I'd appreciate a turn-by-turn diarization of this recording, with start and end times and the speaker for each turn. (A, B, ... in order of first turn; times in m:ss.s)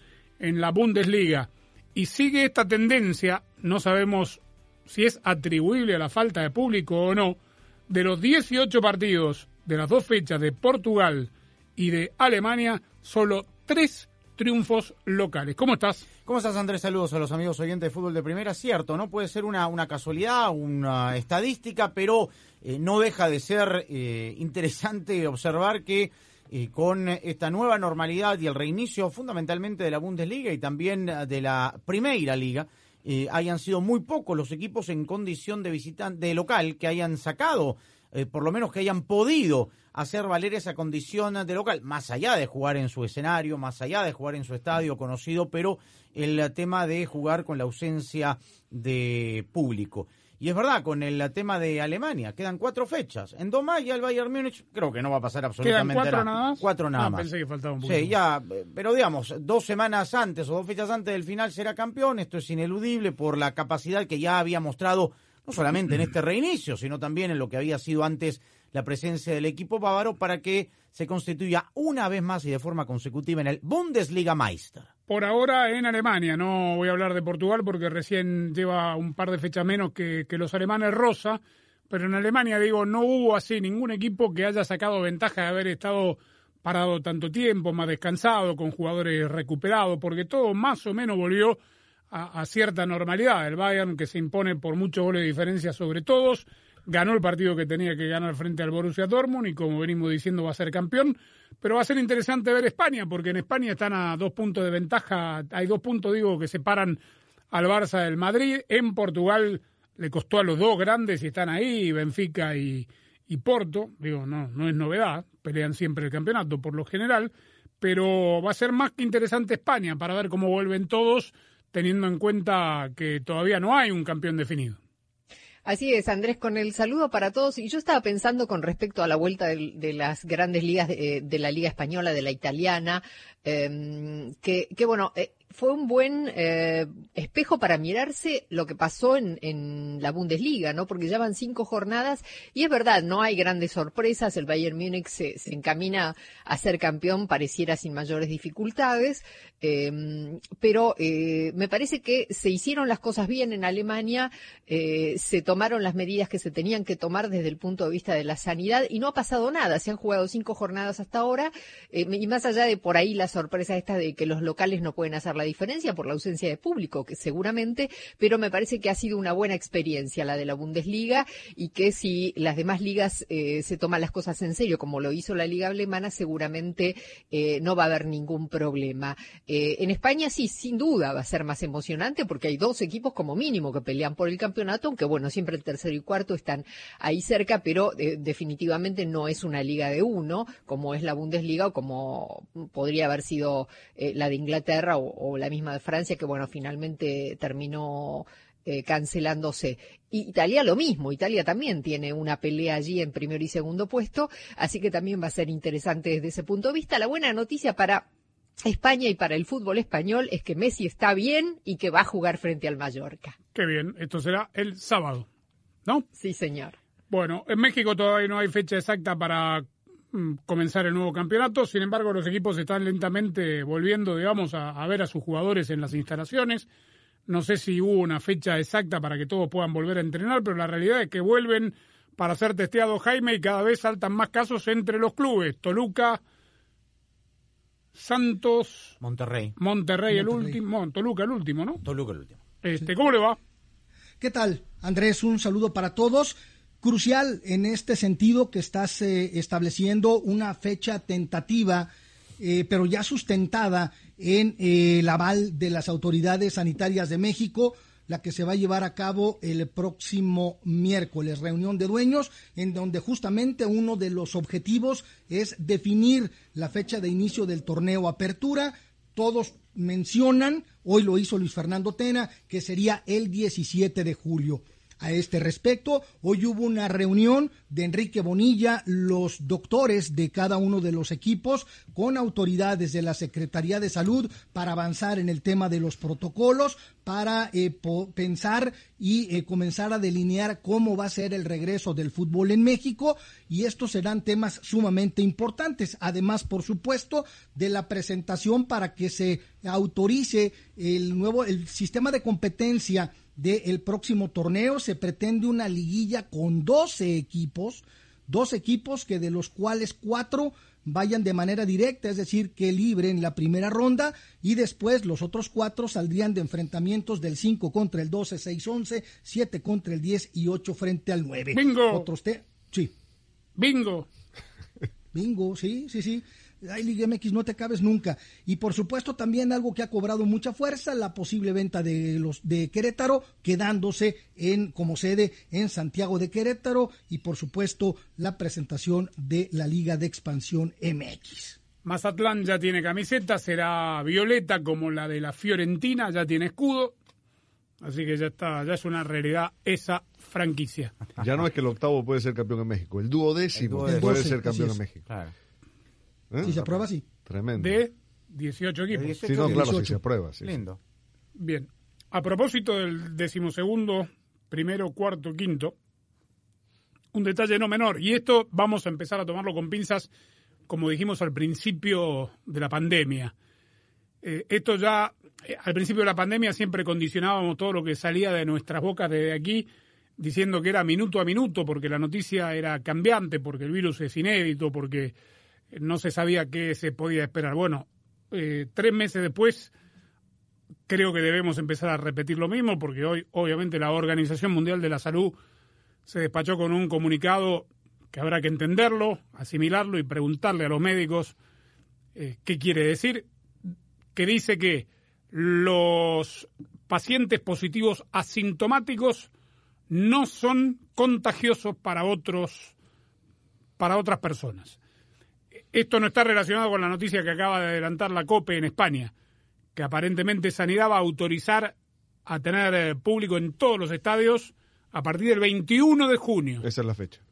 0:00.4-0:16.0 A
0:16.2-0:57.3 B
0:55.6-0:58.2 A
0:57.8-1:14.9 B
1:15.1-1:31.6 A
1:32.1-1:47.0 A
1:47.5-2:04.8 A
2:05.6-3:28.0 C
3:28.6-3:33.3 C
3:33.5-3:35.3 A
3:36.1-3:36.8 C
3:37.1-3:46.7 A
3:47.3-3:56.2 A
3:57.9-3:59.0 A
3:59.0-3:59.5 B
3:59.6-4:01.8 A
4:00.1-4:00.6 D
4:01.8-4:02.4 B
4:02.6-4:03.4 A
4:04.2-5:22.9 D
5:21.5-5:22.1 A
5:23.6-5:24.1 A
5:25.1-5:41.6 D
5:41.8-5:47.0 A
5:47.8-5:50.9 A
5:51.2-5:55.0 E
5:53.5-5:54.4 B
5:53.8-5:54.8 D
5:55.0-5:55.3 B
5:56.3-5:56.7 E
5:56.4-5:57.0 D
5:57.2-5:57.8 E
5:57.6-5:59.2 A
5:58.9-5:59.8 B
5:59.3-6:00.0 D
5:59.3-6:00.6 E
6:00.4-6:00.8 B
6:01.4-6:05.8 A
6:07.1-6:10.1 A
6:10.7-6:13.3 A
6:14.2-6:19.7 A
6:20.2-6:25.1 A
6:25.7-6:29.7 A
6:30.9-6:35.4 A
6:36.1-6:41.3 A
6:42.1-6:43.3 A
6:44.1-6:49.3 A
6:49.9-6:52.7 A
6:53.8-6:54.8 A
6:55.7-6:59.1 A
6:59.7-7:01.7 A
7:02.2-7:06.6 A
7:06.6-7:07.2 E